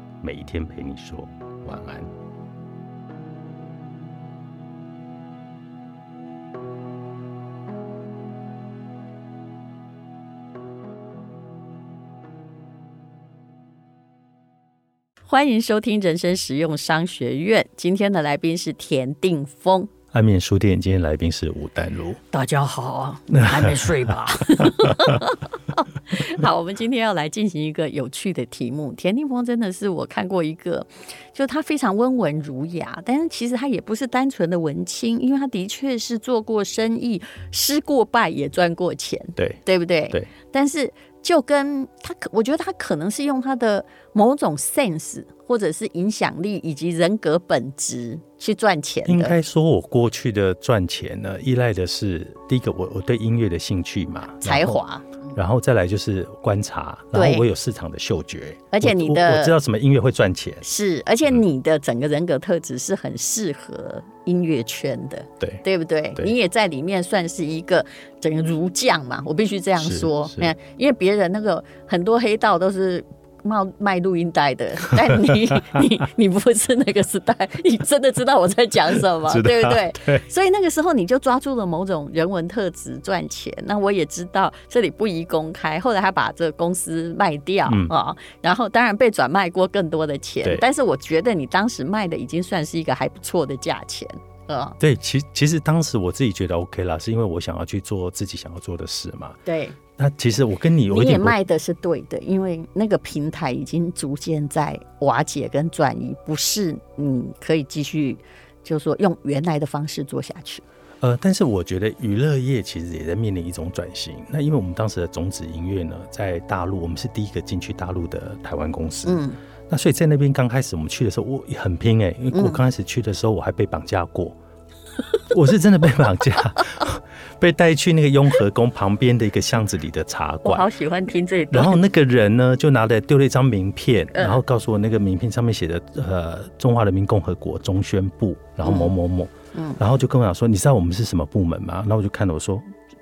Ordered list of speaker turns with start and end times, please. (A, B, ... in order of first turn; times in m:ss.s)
0:00.2-0:02.1 A
0:15.3-0:19.9 B
0:20.1-0:22.2 A
0:22.3-0:49.4 B
0:23.3-0:24.0 A
0:24.6-0:25.2 A
0:49.1-0:54.8 A
0:54.4-0:55.2 B
0:55.4-1:00.6 A
0:57.1-0:57.5 B
0:58.7-0:59.5 B
1:00.6-1:34.8 B
1:09.8-1:10.5 A
1:14.9-1:15.4 A
1:19.3-1:20.2 A
1:27.7-1:27.9 A
1:34.8-1:39.4 A
1:39.5-1:39.8 B
1:40.0-1:41.4 A
1:40.9-1:50.6 B
1:51.0-2:04.4 A
1:59.1-1:59.4 B
2:02.3-2:02.6 B
2:05.3-2:10.7 A
2:10.4-2:11.8 B
2:11.5-2:22.6 A
2:14.1-2:14.4 B
2:18.6-2:18.9 B
2:19.5-2:19.8 B